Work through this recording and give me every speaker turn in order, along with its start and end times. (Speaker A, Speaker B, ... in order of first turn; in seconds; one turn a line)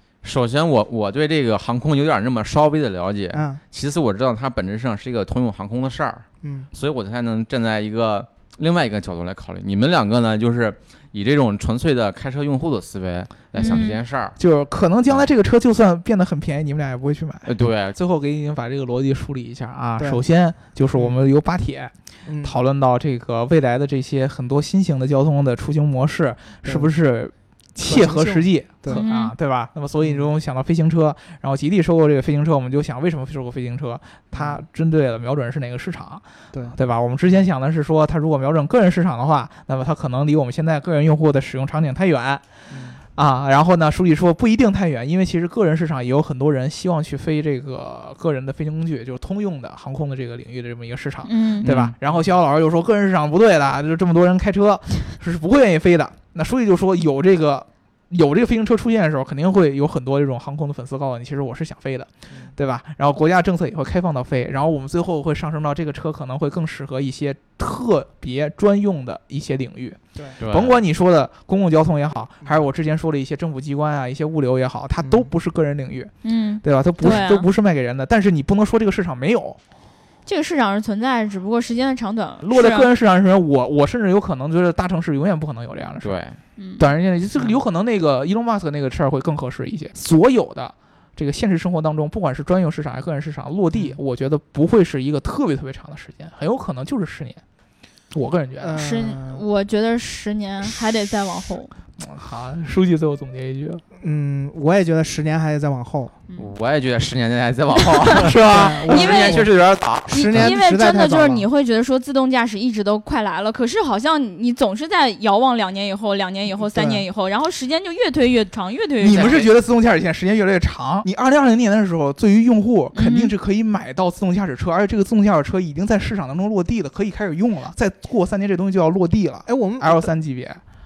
Speaker A: 0.2-14.3
Speaker B: 3.3-3.6
Speaker B: 6.4-6.7
Speaker C: 13.6-14.0
Speaker D: 14.4-42.4
Speaker A: 17.5-18.0
Speaker B: 22.3-22.6
Speaker B: 27.8-29.0
Speaker C: 28.9-29.3
Speaker B: 30.0-30.3
Speaker B: 34.3-34.6
Speaker B: 42.7-43.0
Speaker D: 43.1-76.1
Speaker C: 51.2-51.7
Speaker A: 51.6-52.0
Speaker A: 70.4-70.8
Speaker B: 75.0-75.3
Speaker C: 76.2-77.5
Speaker D: 76.6-79.6
Speaker C: 80.3-82.9
Speaker D: 82.4-86.2
Speaker A: 86.0-86.4
Speaker C: 86.6-86.9
Speaker D: 86.8-97.4
Speaker B: 87.3-87.6
Speaker B: 93.7-94.0
Speaker D: 98.1-98.8
Speaker B: 98.6-99.4
Speaker C: 98.8-101.7
Speaker D: 102.0-103.8
Speaker B: 104.0-106.1
Speaker A: 106.4-110.5
Speaker C: 107.8-108.3
Speaker D: 108.2-109.1
Speaker B: 108.5-109.5
Speaker C: 108.9-109.5
Speaker B: 110.1-111.5
Speaker C: 110.1-119.5
Speaker B: 116.6-117.0
Speaker D: 119.0-130.6
Speaker C: 123.0-123.3
Speaker B: 129.5-130.1